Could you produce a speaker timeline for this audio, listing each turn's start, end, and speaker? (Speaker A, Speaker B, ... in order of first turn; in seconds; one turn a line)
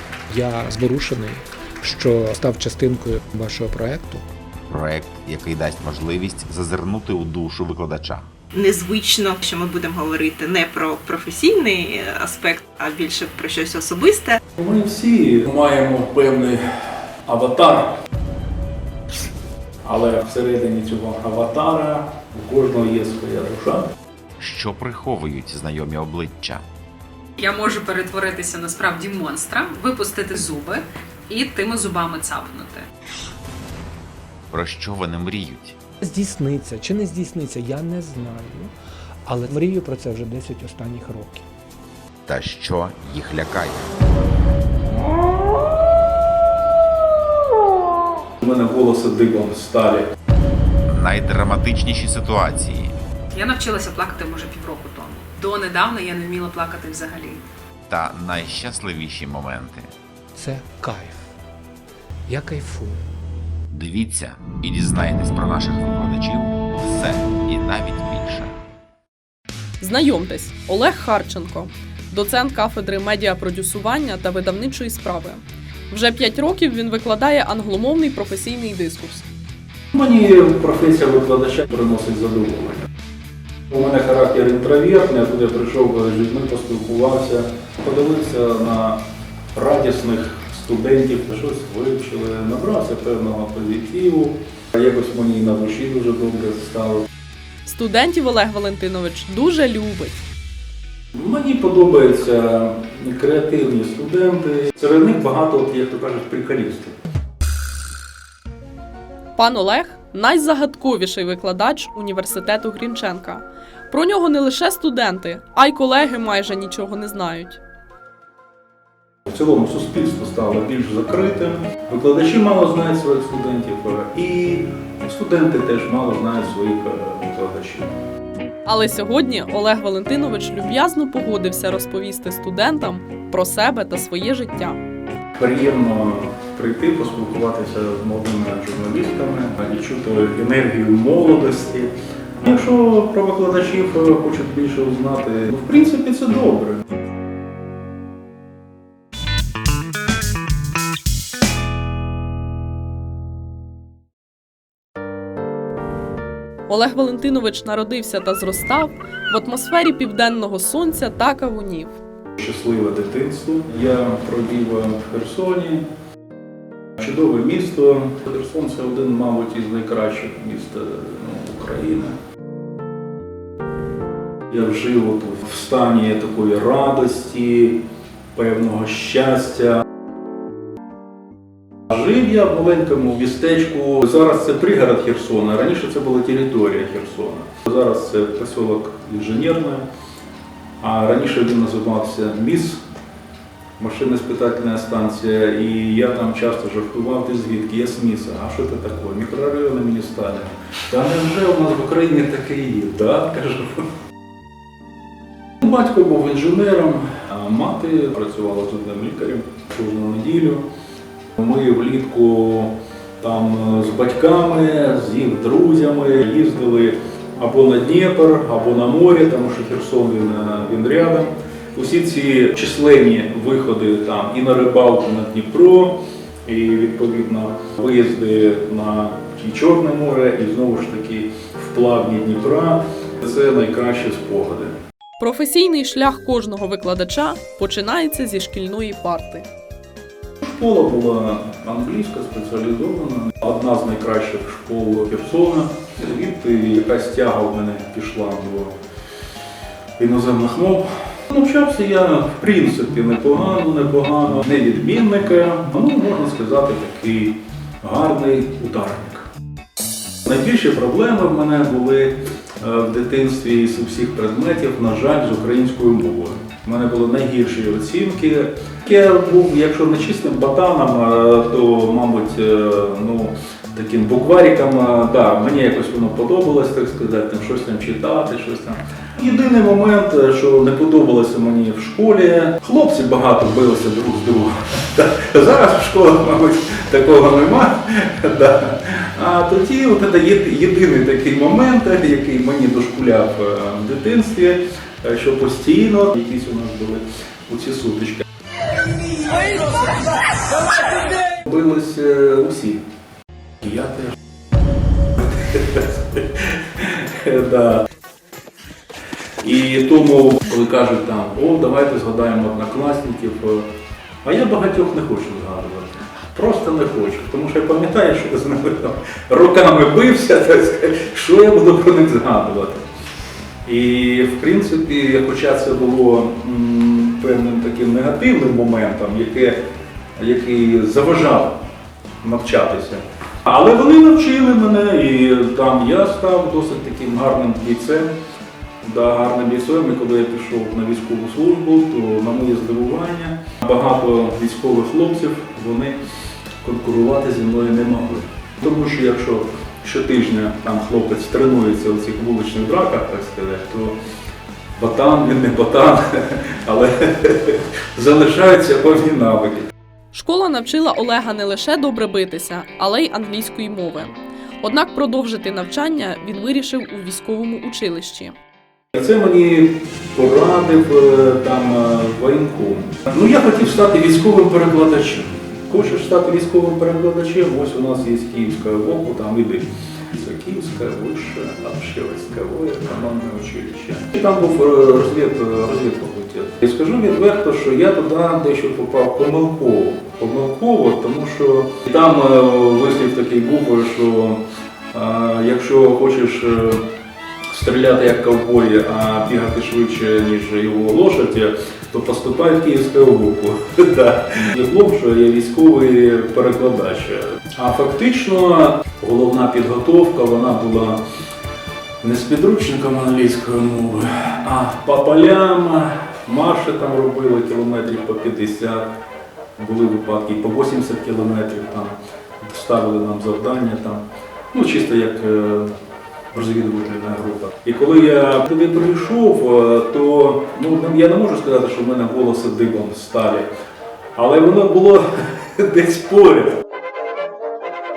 Speaker A: 0.3-4.2
Speaker B: 4.7-8.3
Speaker C: 8.7-14.2
Speaker D: 14.6-16.6
Speaker D: 17.3-17.9
Speaker D: 19.8-23.9
Speaker B: 24.4-26.7
Speaker E: 27.4-32.9
Speaker B: 34.5-35.8
Speaker A: 36.1-38.7
Speaker A: 39.3-41.4
Speaker B: 42.3-43.9
Speaker D: 48.4-50.1
Speaker B: 50.9-53.0
Speaker E: 53.3-57.4
Speaker B: 57.9-59.9
Speaker A: 60.4-61.1
Speaker A: 62.3-63.0
Speaker B: 63.7-68.6
Speaker F: 69.8-79.3
Speaker D: 79.9-82.9
Speaker D: 83.7-89.0
Speaker D: 89.5-97.0
Speaker F: 97.7-100.2
Speaker D: 101.2-107.0
Speaker F: 109.4-117.6
Speaker D: 119.3-127.9
Speaker F: 128.7-134.8
Speaker D: 135.4-146.8
Speaker F: 156.7-162.0
Speaker D: 162.4-165.8
Speaker D: 167.0-172.2
Speaker D: 174.5-177.8
Speaker D: 178.3-179.8
Speaker D: 181.9-189.8
Speaker D: 190.8-192.8
Speaker D: 193.8-203.9
Speaker D: 205.6-210.6
Speaker D: 211.4-234.7
Speaker F: 235.2-239.5
Speaker D: 240.4-248.7
Speaker D: 250.0-259.2
Speaker D: 260.2-298.2
Speaker D: 301.4-302.8
Speaker D: 303.6-304.2
Speaker D: 305.2-307.9
Speaker D: 309.4-313.7
Speaker D: 314.2-322.8
Speaker D: 323.6-329.6
Speaker D: 330.2-331.6
Speaker D: 332.2-338.1
Speaker D: 338.8-346.0
Speaker D: 346.6-353.9
Speaker D: 354.8-359.7
Speaker F: 360.1-368.4
Speaker D: 368.9-394.4
Speaker D: 394.9-396.8
Speaker D: 397.5-411.0
Speaker D: 412.0-418.9
Speaker D: 419.6-425.7
Speaker D: 426.3-433.5
Speaker D: 434.2-436.6